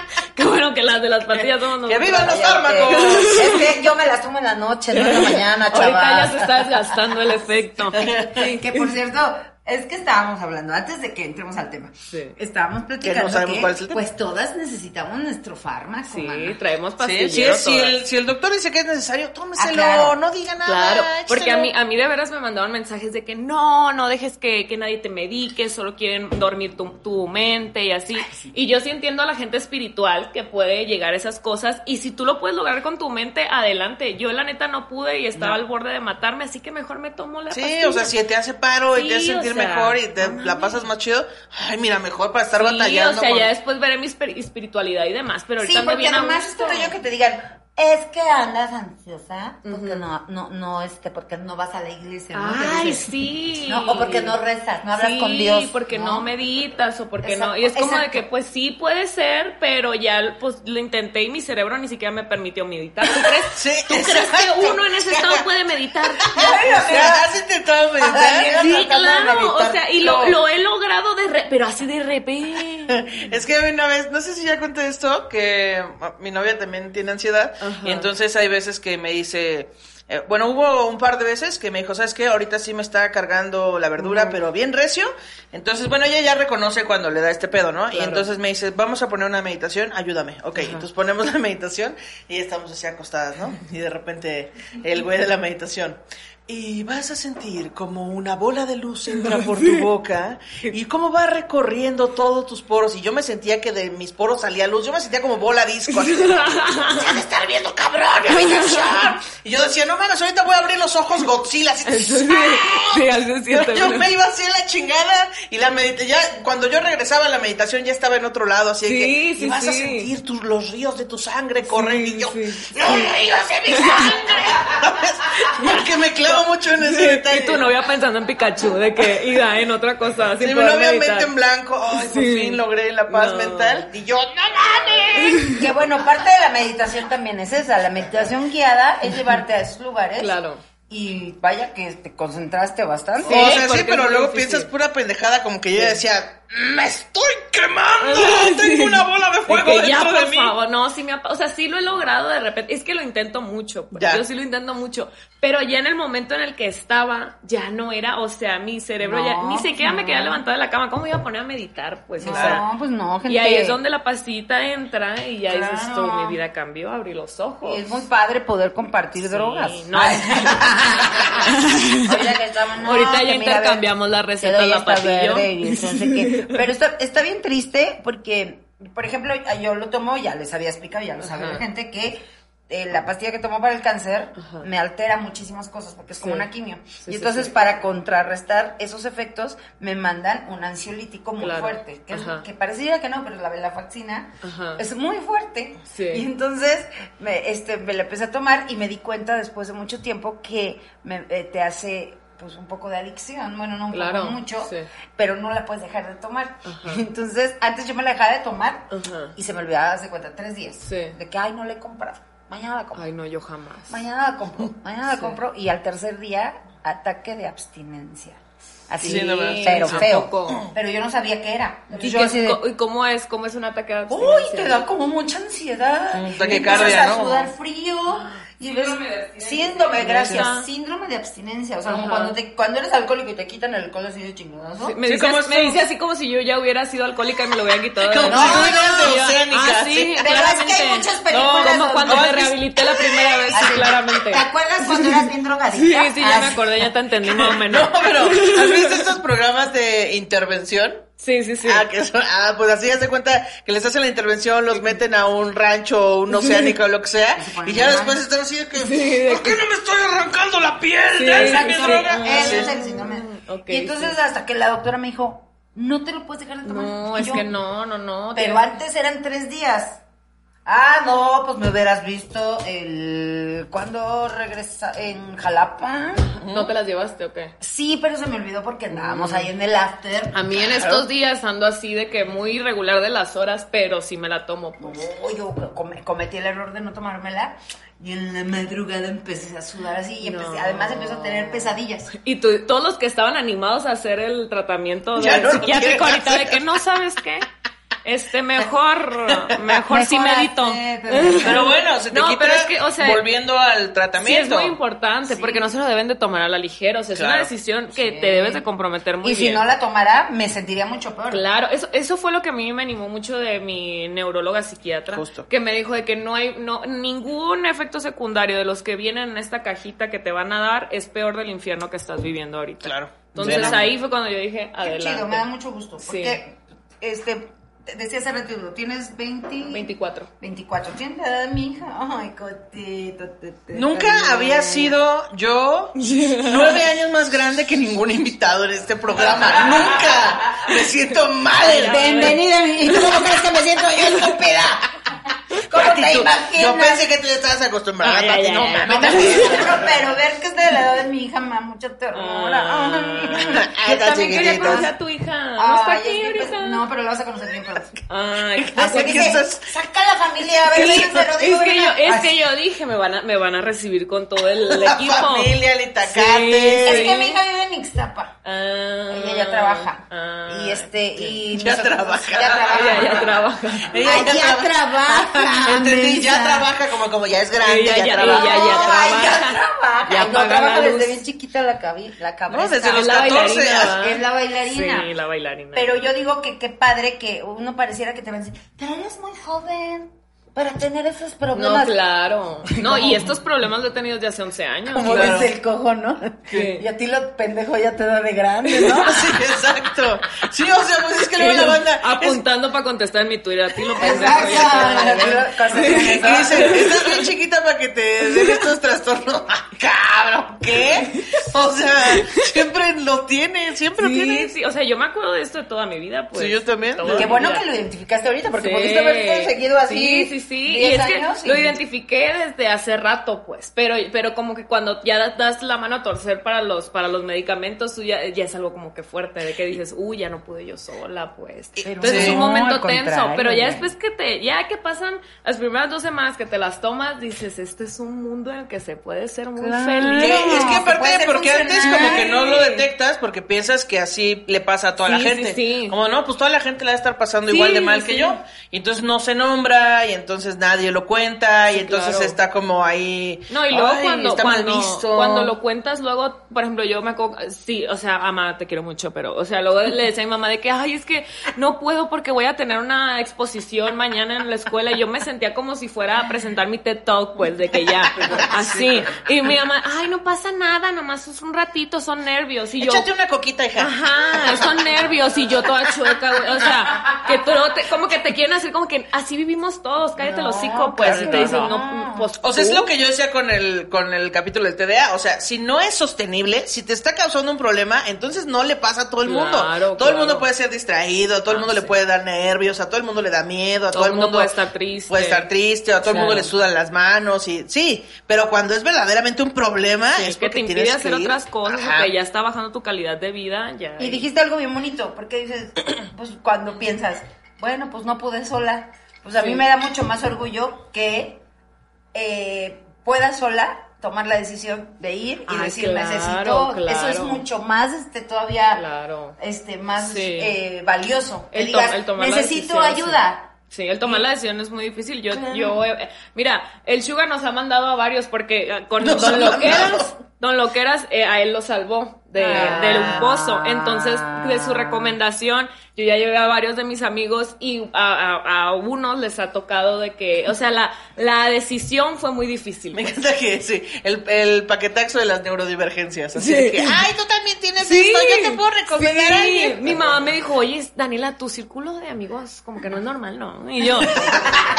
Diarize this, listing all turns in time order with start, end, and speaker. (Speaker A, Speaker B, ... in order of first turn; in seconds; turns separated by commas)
Speaker A: 0.3-3.6, Speaker B: 1.9-3.6, Speaker C: 2.1-6.8, Speaker A: 4.9-8.9, Speaker B: 8.0-8.3, Speaker C: 8.3-16.6, Speaker A: 12.1-12.3, Speaker B: 13.0-14.0, Speaker A: 16.1-18.0, Speaker B: 17.0-21.7, Speaker C: 19.6-20.2, Speaker A: 20.6-38.1, Speaker C: 28.1-28.5, Speaker B: 37.5-43.5, Speaker A: 38.9-40.8, Speaker A: 42.6-46.9, Speaker C: 45.6-56.3, Speaker A: 49.6-50.0, Speaker A: 52.3-54.4, Speaker A: 54.9-66.4, Speaker C: 57.2-58.3, Speaker B: 63.5-65.4, Speaker B: 66.3-68.5, Speaker C: 66.3-67.2, Speaker C: 68.0-70.1, Speaker A: 68.5-73.1, Speaker B: 70.0-70.3, Speaker B: 72.9-127.6, Speaker A: 77.6-78.1, Speaker A: 84.0-84.4, Speaker A: 87.9-88.2, Speaker A: 90.6-90.8, Speaker A: 99.3-99.8, Speaker A: 105.9-107.0, Speaker A: 108.3-109.1, Speaker A: 111.8-114.1, Speaker A: 118.8-120.1, Speaker A: 121.6-123.1, Speaker A: 123.7-124.1, Speaker A: 125.5-131.3, Speaker B: 130.4-135.6, Speaker A: 131.9-133.9, Speaker A: 135.2-135.6, Speaker C: 135.4-140.3, Speaker A: 140.2-140.6, Speaker C: 140.9-143.6, Speaker A: 143.2-144.7, Speaker B: 143.2-150.5, Speaker A: 148.0-162.6, Speaker B: 153.9-154.2, Speaker C: 159.0-160.4, Speaker C: 162.2-163.8, Speaker B: 162.3-162.6, Speaker A: 163.3-167.9, Speaker C: 165.5-166.4, Speaker C: 167.6-173.9, Speaker A: 169.2-172.3, Speaker A: 172.8-176.6, Speaker C: 174.4-213.1, Speaker A: 181.2-181.6, Speaker A: 184.4-184.7, Speaker A: 186.2-186.5, Speaker A: 187.0-187.7, Speaker A: 191.4-192.4, Speaker A: 194.4-194.8, Speaker A: 195.9-196.3, Speaker A: 203.9-204.9, Speaker A: 206.6-207.0, Speaker A: 208.9-209.3, Speaker A: 210.8-211.1, Speaker A: 212.9-214.0, Speaker C: 213.9-222.6, Speaker A: 219.0-220.7, Speaker B: 219.0-220.7, Speaker A: 222.0-224.8, Speaker C: 224.1-234.9, Speaker B: 226.1-227.5, Speaker A: 226.5-227.0, Speaker A: 228.1-230.6, Speaker A: 231.8-232.3, Speaker A: 234.8-249.0, Speaker B: 235.1-235.8, Speaker B: 238.0-240.2, Speaker C: 238.2-239.2, Speaker C: 240.2-246.8, Speaker B: 242.1-242.6, Speaker B: 247.3-251.0, Speaker A: 251.2-251.8, Speaker B: 251.6-262.7, Speaker A: 256.4-256.7, Speaker C: 257.3-258.2, Speaker A: 258.8-259.6, Speaker A: 261.1-264.2, Speaker C: 261.3-267.6, Speaker A: 266.6-268.6, Speaker C: 268.3-270.0, Speaker C: 270.6-276.3, Speaker A: 276.4-277.5, Speaker B: 276.4-276.7, Speaker C: 277.6-281.1, Speaker A: 278.9-279.5, Speaker A: 280.3-285.0, Speaker C: 284.8-292.1, Speaker A: 290.2-297.4, Speaker B: 295.1-296.6, Speaker A: 298.0-303.2, Speaker C: 299.6-301.7, Speaker B: 301.4-304.8, Speaker A: 304.2-309.6, Speaker C: 305.2-305.7, Speaker B: 307.1-307.5, Speaker C: 307.9-308.6, Speaker C: 309.2-311.4, Speaker A: 311.3-325.4, Speaker B: 315.1-315.5, Speaker B: 322.8-323.8, Speaker C: 323.4-323.9, Speaker C: 324.8-329.9, Speaker A: 326.0-326.4, Speaker A: 329.7-330.3, Speaker C: 330.4-335.0, Speaker B: 333.7-342.3, Speaker A: 336.0-336.8, Speaker C: 339.3-340.1, Speaker C: 341.6-344.8, Speaker A: 341.7-343.2, Speaker C: 345.7-347.1, Speaker B: 345.7-350.0, Speaker A: 348.0-349.8, Speaker C: 348.8-354.9, Speaker A: 352.1-356.8, Speaker B: 353.5-354.9, Speaker C: 355.6-357.9, Speaker A: 358.1-359.4, Speaker B: 358.6-359.7, Speaker C: 358.8-362.4, Speaker A: 360.7-367.4, Speaker B: 364.6-367.2, Speaker C: 366.8-368.4, Speaker A: 368.4-371.4, Speaker C: 369.1-373.3, Speaker B: 371.5-379.0, Speaker A: 372.7-374.0, Speaker C: 373.9-376.7, Speaker A: 377.6-381.2, Speaker C: 378.2-385.1, Speaker B: 382.5-384.0, Speaker A: 382.9-385.9, Speaker C: 385.7-392.0, Speaker A: 391.5-395.4, Speaker C: 392.7-393.3, Speaker C: 394.9-399.4, Speaker B: 395.0-395.5, Speaker A: 396.5-396.8, Speaker A: 398.7-399.1, Speaker B: 399.0-402.4, Speaker A: 401.4-407.3, Speaker C: 404.0-406.8, Speaker B: 404.0-404.9, Speaker B: 405.7-414.5, Speaker A: 408.3-408.6, Speaker A: 413.9-417.7, Speaker B: 416.3-417.3, Speaker C: 417.1-421.8, Speaker A: 418.6-440.7, Speaker C: 431.8-433.9, Speaker B: 432.0-432.4, Speaker C: 439.6-442.3, Speaker B: 440.1-455.5, Speaker A: 441.8-442.8, Speaker A: 445.0-445.9, Speaker A: 447.5-448.4, Speaker A: 451.7-452.4, Speaker A: 453.5-473.1, Speaker B: 468.2-469.2, Speaker B: 472.8-474.7, Speaker A: 473.8-482.9, Speaker C: 480.2-482.3, Speaker B: 481.0-481.7, Speaker B: 482.4-494.5, Speaker A: 489.2-490.4, Speaker A: 491.5-491.9, Speaker A: 493.9-495.5, Speaker B: 495.1-502.1, Speaker A: 496.0-496.5, Speaker A: 500.1-504.2, Speaker C: 504.0-511.4, Speaker A: 509.4-509.6, Speaker C: 512.1-518.8, Speaker A: 515.5-517.4, Speaker A: 518.7-519.4, Speaker C: 519.4-524.3, Speaker A: 520.0-520.5, Speaker A: 521.5-543.1, Speaker C: 525.3-525.9, Speaker B: 529.0-530.1, Speaker B: 532.4-533.4, Speaker C: 532.4-533.1, Speaker B: 542.9-550.1, Speaker A: 546.4-547.0, Speaker A: 547.8-554.3